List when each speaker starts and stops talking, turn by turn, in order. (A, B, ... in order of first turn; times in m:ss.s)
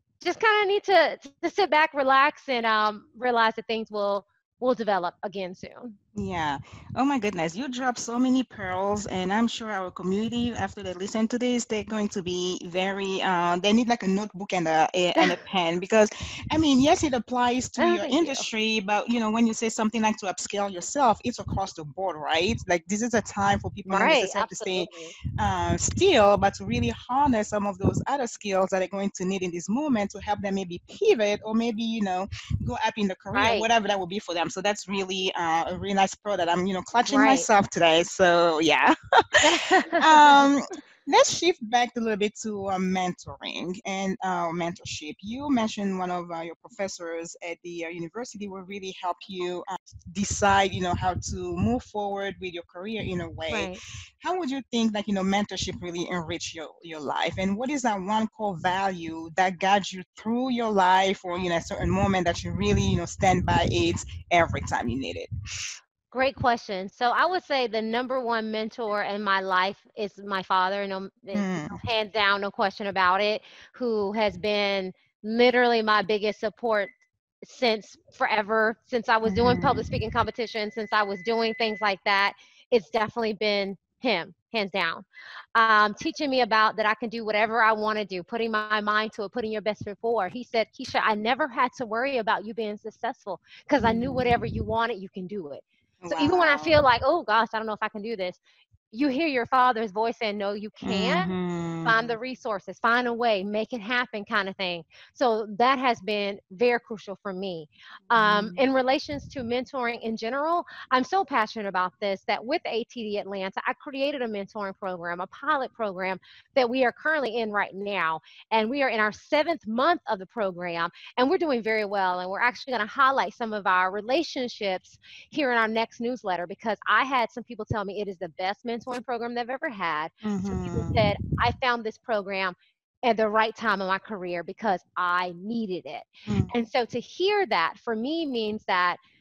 0:00.2-0:06.0 A
0:06.2-0:39.0 B
0:17.8-0:18.5 A
0:23.8-0:25.2 A
0:33.3-0:33.7 A
0:37.1-0:37.5 A
0:39.4-0:40.4 A
0:39.8-1:05.3 B
0:53.5-0:53.8 A
1:06.1-1:38.4 A
1:11.3-1:11.8 B
1:19.3-1:19.9 B
1:33.8-1:34.3 B
1:36.0-1:36.8 B
1:38.9-2:19.0 A
1:40.8-1:42.2 B
1:48.1-1:48.6 B
2:10.2-2:11.1 B
2:16.3-2:16.5 B